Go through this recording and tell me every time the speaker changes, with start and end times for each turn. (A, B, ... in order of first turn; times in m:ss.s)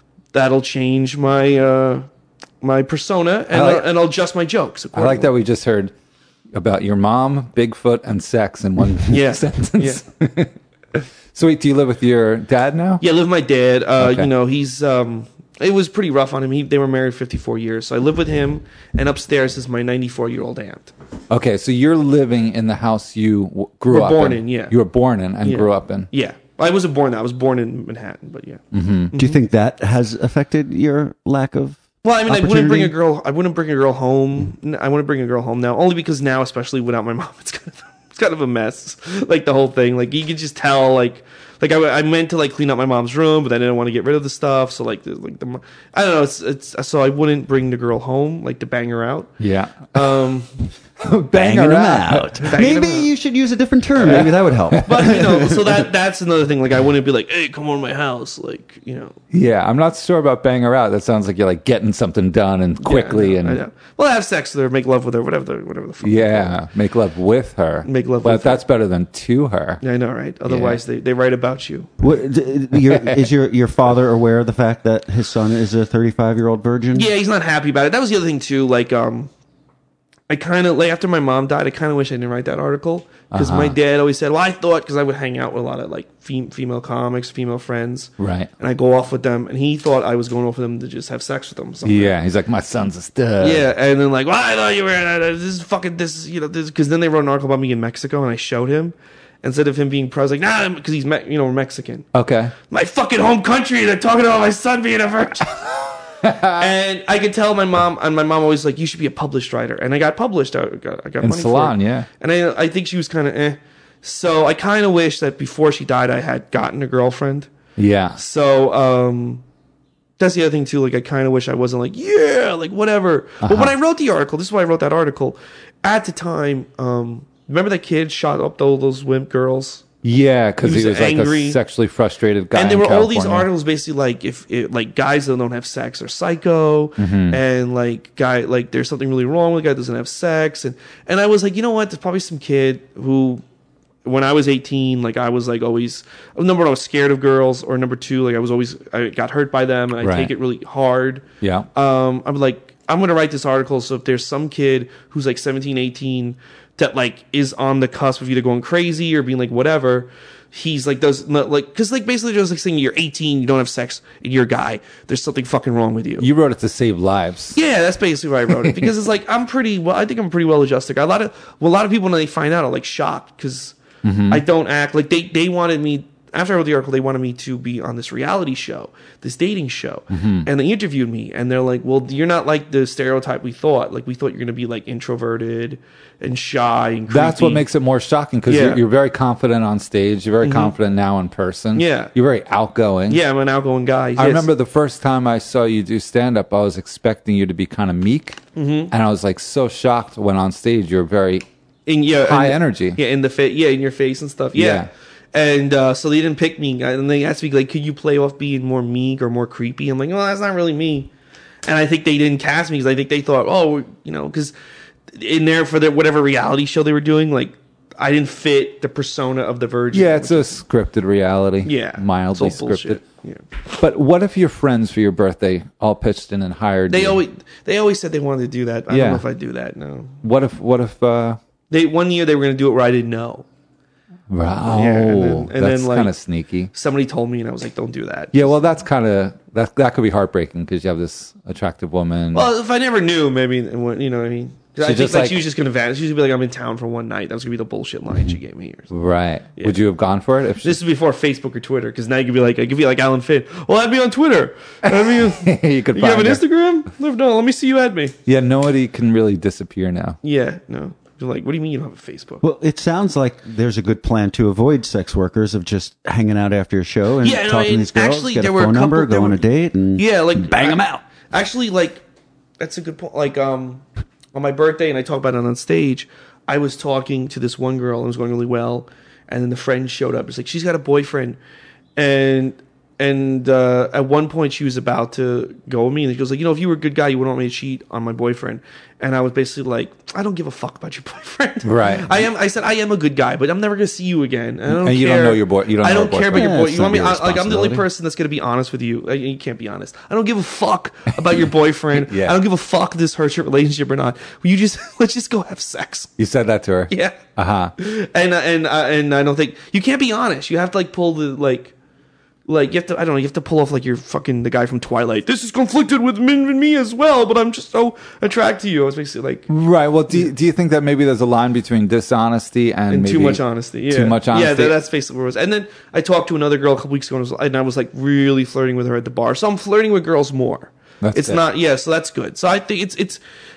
0:00.3-0:02.1 A
0:02.6-0:05.3 A
0:03.5-0:03.9 B
0:04.9-0:05.9 B
0:06.5-0:13.0 B
0:09.1-0:10.0 A
0:13.0-0:20.9 A
0:14.0-0:14.3 B
0:21.3-0:26.1 B
0:23.9-0:24.8 A
0:25.4-0:29.4 A
0:28.7-0:29.1 B
0:29.2-0:32.9 C
0:32.0-0:49.3 A
0:49.4-0:50.2 B
0:49.9-0:50.5 A
0:51.0-0:52.5 B
0:51.3-0:55.8 C
0:52.4-0:53.1 A
0:54.0-0:59.1 A
0:54.0-0:55.2 B
0:59.3-1:03.6 B
1:02.8-1:06.6 A
1:06.0-1:09.8 B
1:07.8-1:08.6 A
1:09.8-1:11.9 A
1:10.5-1:10.8 B
1:12.0-1:17.1 C
1:16.9-1:19.3 A
1:20.3-1:32.1 A
1:23.3-1:23.8 B
1:28.2-1:28.5 B
1:31.8-1:33.6 B
1:33.4-1:42.1 A
1:42.1-1:42.5 B
1:42.7-1:45.6 A
1:46.2-1:46.6 B
1:46.5-1:57.5 A
1:51.2-1:52.1 B
1:57.8-1:58.2 B
1:58.2-1:59.4 A
2:00.2-2:09.9 A
2:03.4-2:03.7 B
2:10.0-2:13.5 B
2:10.6-2:11.6 A
2:12.5-2:23.4 A
2:17.0-2:17.4 B
2:24.0-2:46.3 A
2:30.0-2:30.3 B
2:31.4-2:31.7 B
2:46.2-2:47.6 B
2:47.5-2:53.8 A
2:54.0-2:54.4 B
2:54.3-3:07.6 A
3:00.1-3:00.5 B
3:07.1-3:13.2 B
3:08.5-3:08.8 A
3:10.4-3:10.7 A
3:11.7-3:12.1 A
3:13.1-3:14.5 A
3:14.2-3:21.4 B
3:18.5-3:18.9 A
3:21.9-3:31.1 A
3:22.2-3:23.0 B
3:24.5-3:24.9 B
3:31.6-3:34.5 A
3:35.1-3:40.6 A
3:39.9-3:43.0 B
3:41.6-3:43.4 A
3:43.8-3:47.2 B
3:46.9-3:50.2 A
3:48.9-3:49.2 B
3:50.2-3:51.4 B
3:51.7-3:53.4 A
3:54.3-3:56.7 B
3:54.6-3:56.1 A
3:56.7-3:58.6 A
3:58.3-4:02.5 B
4:02.3-4:08.9 A
4:04.8-4:05.4 B
4:08.9-4:10.8 B
4:10.6-4:18.2 A
4:14.8-4:16.4 B
4:18.2-4:20.2 B
4:20.2-4:22.4 A
4:22.4-4:31.0 C
4:27.2-4:29.4 A
4:29.9-4:32.0 A
4:32.6-4:41.4 A
4:42.0-5:06.1 A
4:51.6-4:52.2 B
4:54.7-4:56.5 B
4:56.3-4:57.9 C
5:01.9-5:02.4 B
5:06.2-5:07.7 B
5:06.9-5:11.7 A
5:12.5-5:19.5 A
5:19.5-5:24.8 B
5:22.9-5:33.2 A
5:31.0-5:31.4 B